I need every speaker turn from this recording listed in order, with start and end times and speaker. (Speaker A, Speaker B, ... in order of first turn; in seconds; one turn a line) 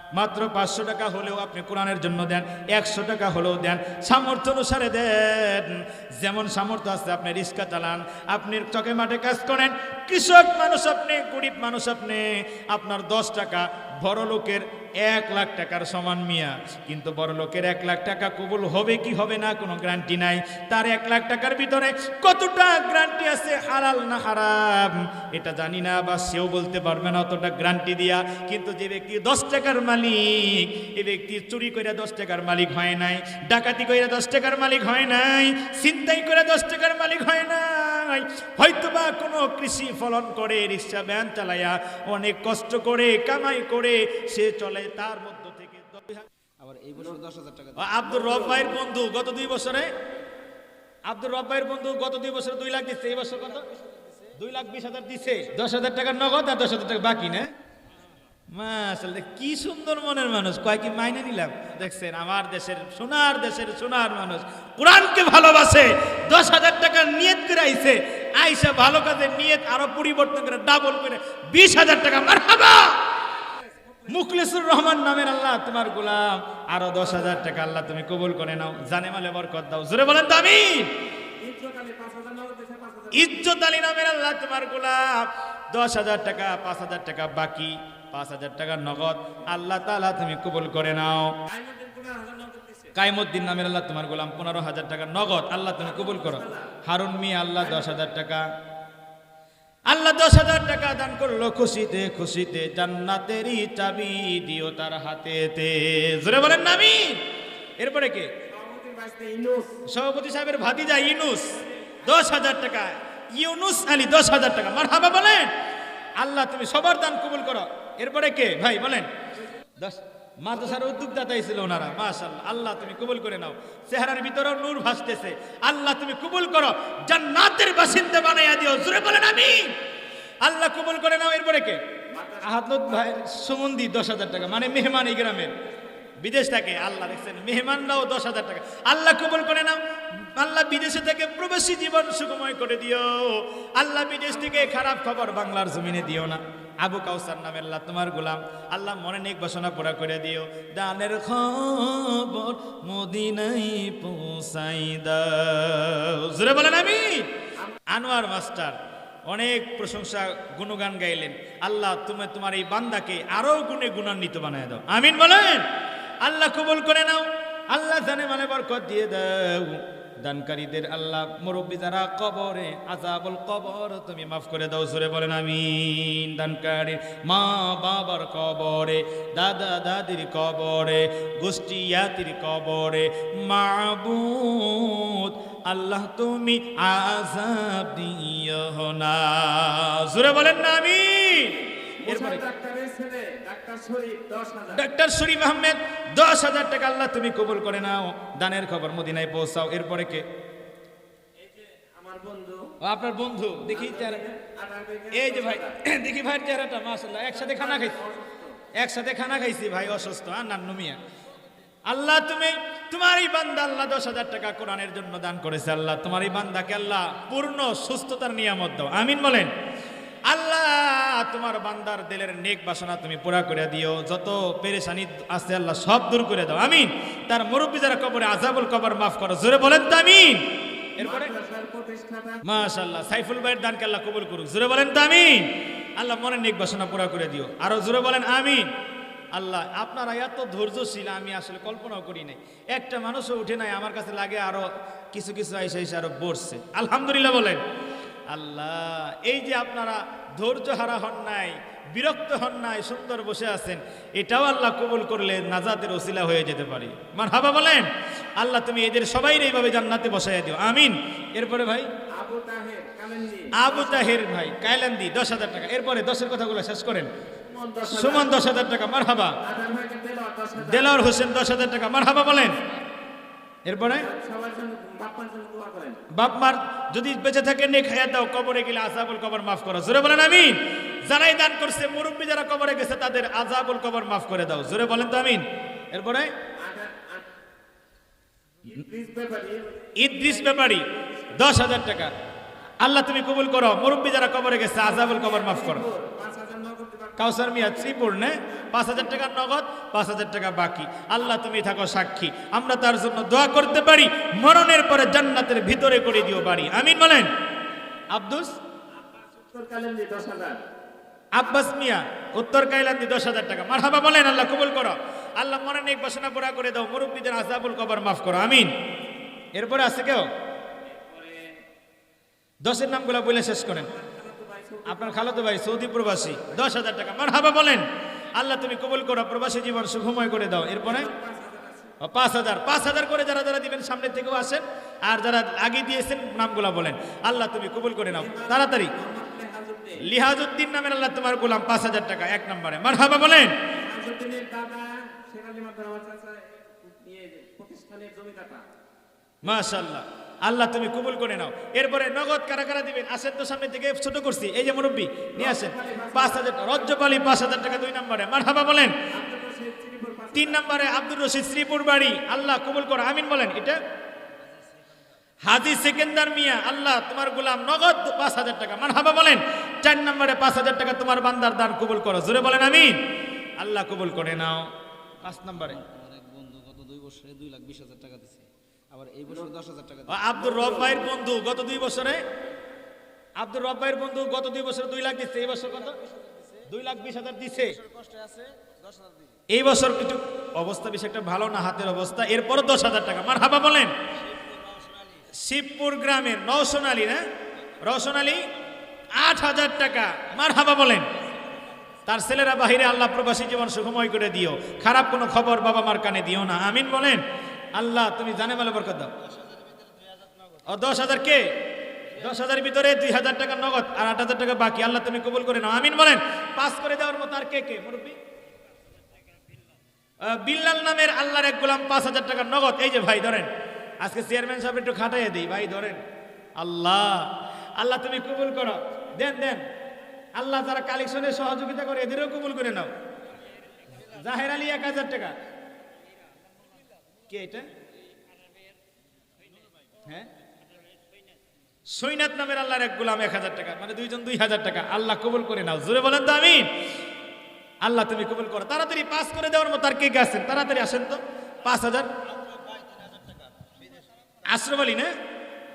Speaker A: 0.1-46.3
Speaker B: 46.6-48.0
Speaker A: 47.8-49.9
Speaker A: 51.1-53.7
Speaker B: 53.6-54.4
Speaker A: 54.4-57.5
Speaker A: 58.5-73.1
Speaker A: 74.1-80.9
Speaker C: 81.4-83.3
Speaker A: 83.1-91.4
Speaker C: 91.5-92.9
Speaker A: 92.9-98.5
Speaker C: 96.0-96.7
Speaker A: 99.9-107.2
Speaker A: 107.8-108.3
Speaker C: 108.5-109.7
Speaker A: 109.9-115.5
Speaker A: 116.2-119.1
Speaker A: 119.8-129.7
Speaker A: 130.4-131.8
Speaker C: 132.1-132.4
Speaker A: 132.4-135.5
Speaker A: 136.2-157.3
Speaker A: 157.9-165.7
Speaker A: 166.2-192.4
Speaker C: 192.0-194.8
Speaker A: 194.7-200.2
Speaker C: 201.4-202.7
Speaker A: 202.8-204.2
Speaker C: 203.7-205.8
Speaker A: 205.1-208.0
Speaker C: 207.4-208.6
Speaker A: 208.8-211.0
Speaker A: 211.9-219.5
Speaker A: 220.3-230.4
Speaker A: 231.0-231.3
Speaker C: 231.0-232.4
Speaker A: 232.4-238.7
Speaker A: 239.3-247.6
Speaker A: 248.3-261.9
Speaker C: 262.1-264.1
Speaker A: 263.5-267.1
Speaker C: 267.4-268.3
Speaker A: 267.8-269.4
Speaker C: 269.4-270.9
Speaker A: 270.6-272.6
Speaker A: 273.7-274.1
Speaker C: 274.1-276.0
Speaker A: 276.1-286.3
Speaker C: 286.6-287.3
Speaker C: 288.7-290.0
Speaker A: 289.9-292.1
Speaker A: 292.8-295.9
Speaker C: 295.0-297.9
Speaker A: 297.2-307.3
Speaker A: 308.1-308.6
Speaker C: 309.3-310.6
Speaker A: 311.3-318.7
Speaker A: 319.6-320.3
Speaker C: 321.1-321.5
Speaker A: 322.6-323.9
Speaker C: 323.9-325.2
Speaker A: 324.9-331.1
Speaker C: 331.0-331.9
Speaker A: 332.0-338.9
Speaker C: 338.2-340.0
Speaker A: 340.0-343.6
Speaker C: 343.8-348.6
Speaker A: 349.4-358.9
Speaker C: 355.4-356.5
Speaker C: 359.1-360.5
Speaker A: 360.4-363.8
Speaker A: 365.4-373.0
Speaker A: 373.6-374.7
Speaker A: 375.2-375.8
Speaker B: 375.4-380.3
Speaker A: 380.1-382.2
Speaker C: 380.5-381.0
Speaker A: 383.4-386.0
Speaker B: 385.9-386.7
Speaker A: 386.7-387.8
Speaker B: 387.6-389.4
Speaker A: 389.5-393.9
Speaker B: 394.1-395.3
Speaker A: 395.3-397.2
Speaker A: 397.8-398.5
Speaker A: 399.1-401.1
Speaker B: 401.2-401.8
Speaker A: 402.1-407.2
Speaker A: 407.7-409.1
Speaker B: 409.2-410.7
Speaker A: 410.7-411.5
Speaker A: 412.1-418.2
Speaker A: 420.2-423.5
Speaker A: 424.0-426.0
Speaker A: 426.6-429.7
Speaker A: 430.4-432.9
Speaker A: 434.0-435.4
Speaker A: 437.3-437.7
Speaker A: 440.0-440.3
Speaker A: 441.9-446.7
Speaker A: 447.8-452.1
Speaker B: 452.2-454.5
Speaker A: 454.4-455.1